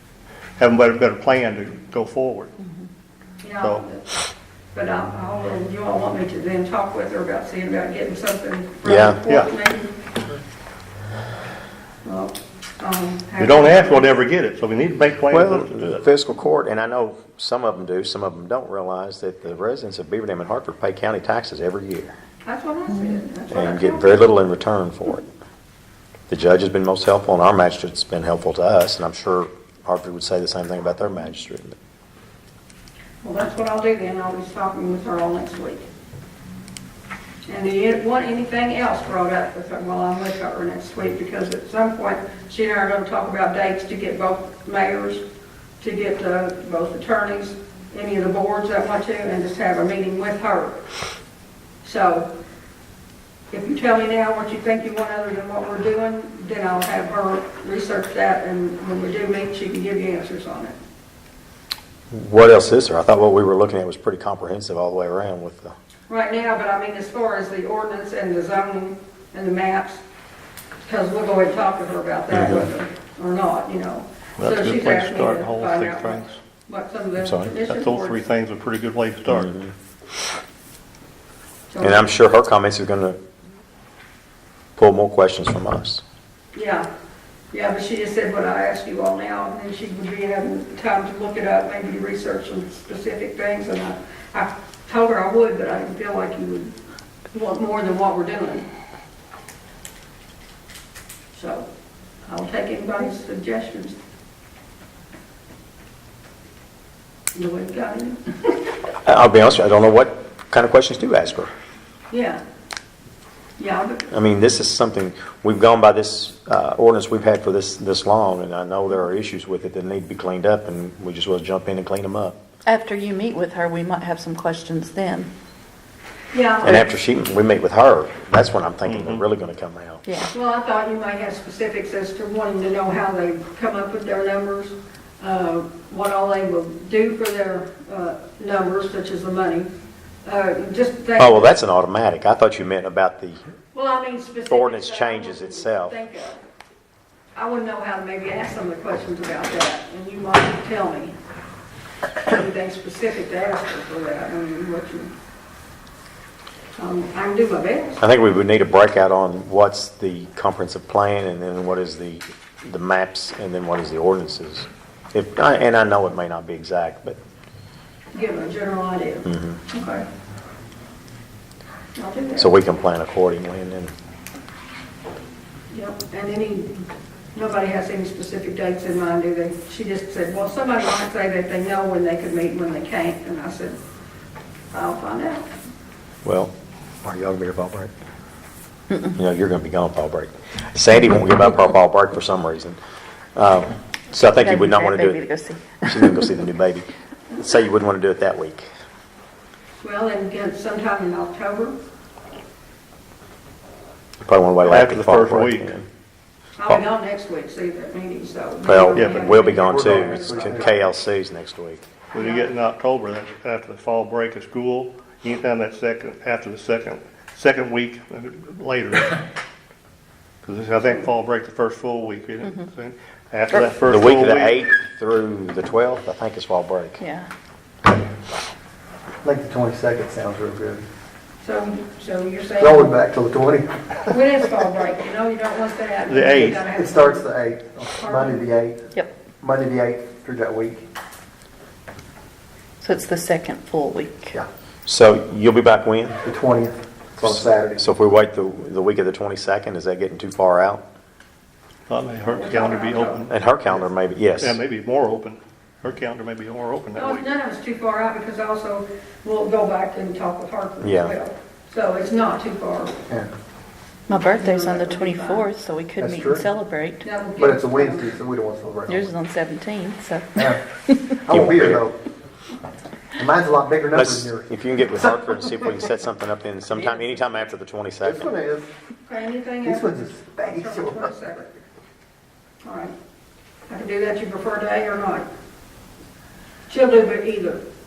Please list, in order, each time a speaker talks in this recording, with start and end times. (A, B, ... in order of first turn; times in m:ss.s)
0:00.6-0:02.6 A
0:03.4-0:04.1 B
0:04.7-0:10.0 B
0:08.8-0:09.2 C
0:12.0-0:14.2 B
0:13.4-0:16.0 A
0:15.3-0:22.2 C
0:22.4-0:24.1 B
0:23.5-0:25.3 C
0:26.3-0:31.8 C
0:33.2-0:35.9 B
0:37.5-0:45.2 B
0:45.8-0:50.8 B
0:51.8-0:52.3 B
0:53.5-1:00.8 B
1:02.1-1:05.7 C
1:06.1-1:10.0 B
1:10.8-1:18.2 B
1:12.3-1:12.7 C
1:14.4-1:16.4 A
1:17.2-1:17.5 C
1:17.7-1:19.5 A
1:19.3-1:19.7 C
1:21.7-1:22.1 B
1:21.8-1:23.2 C
1:24.8-1:26.0 C
1:26.5-1:26.9 B
1:27.5-1:36.8 B
1:37.3-1:38.7 B
1:41.3-1:41.7 B
1:42.3-1:44.0 B
1:47.4-1:48.6 B
1:49.0-1:51.5 C
1:52.1-1:52.4 B
1:53.6-1:54.0 B
1:54.1-2:02.4 C
2:02.7-2:05.3 D
2:06.3-2:06.9 B
2:06.6-2:10.0 C
2:08.8-2:09.2 A
2:10.1-2:10.3 D
2:10.3-2:19.7 B
2:20.2-2:21.5 B
2:21.2-2:23.4 C
2:23.7-2:26.4 B
2:24.5-2:26.0 C
2:27.4-2:31.2 B
2:32.2-2:35.1 B
2:36.8-2:38.0 B
2:38.0-2:47.2 C
2:48.1-2:50.0 B
2:49.3-2:49.6 C
2:52.0-2:52.5 B
2:52.4-2:53.9 C
2:55.7-2:56.7 B
2:57.4-3:03.8 B
3:04.7-3:05.5 B
3:06.2-3:06.5 C
3:07.0-3:07.9 C
3:09.1-3:12.8 C
3:13.4-3:15.2 C
3:14.3-3:16.3 D
3:15.8-3:18.7 C
3:19.8-3:21.7 B
3:24.2-3:25.8 C
3:24.6-3:25.7 A
3:26.6-3:30.9 B
3:28.7-3:31.9 C
3:29.0-3:29.3 A
3:29.6-3:30.7 E
3:32.1-3:39.2 A
3:32.2-3:32.5 B
3:40.4-3:44.6 A
3:43.5-3:47.0 C
3:47.0-3:47.3 D
3:49.2-3:50.8 E
3:51.4-3:52.9 B
3:52.6-3:54.2 E
3:54.1-3:57.3 B
3:56.1-3:56.6 A
3:56.6-3:58.9 E
3:58.0-3:58.4 B
3:59.4-4:00.8 E
4:02.8-4:04.4 D
4:04.9-4:06.2 C
4:06.2-4:07.8 E
4:07.2-4:10.8 C
4:11.9-4:13.3 A
4:12.2-4:13.3 B
4:13.3-4:14.6 C
4:14.4-4:17.2 A
4:17.0-4:23.0 B
4:20.8-4:21.2 C
4:24.1-4:27.1 D
4:24.3-4:25.5 B
4:26.0-4:26.5 E
4:27.0-4:28.2 B
4:27.4-4:29.2 E
4:28.9-4:31.2 D
4:30.4-4:30.6 E
4:31.2-4:32.0 E
4:31.3-4:31.8 C
4:33.2-4:34.5 E
4:33.9-4:38.3 C
4:36.8-4:37.2 D
4:38.0-4:38.7 E
4:39.0-4:41.5 B
4:39.6-4:41.2 E
4:42.6-4:43.0 B
4:43.7-4:45.3 B
4:46.7-4:47.6 B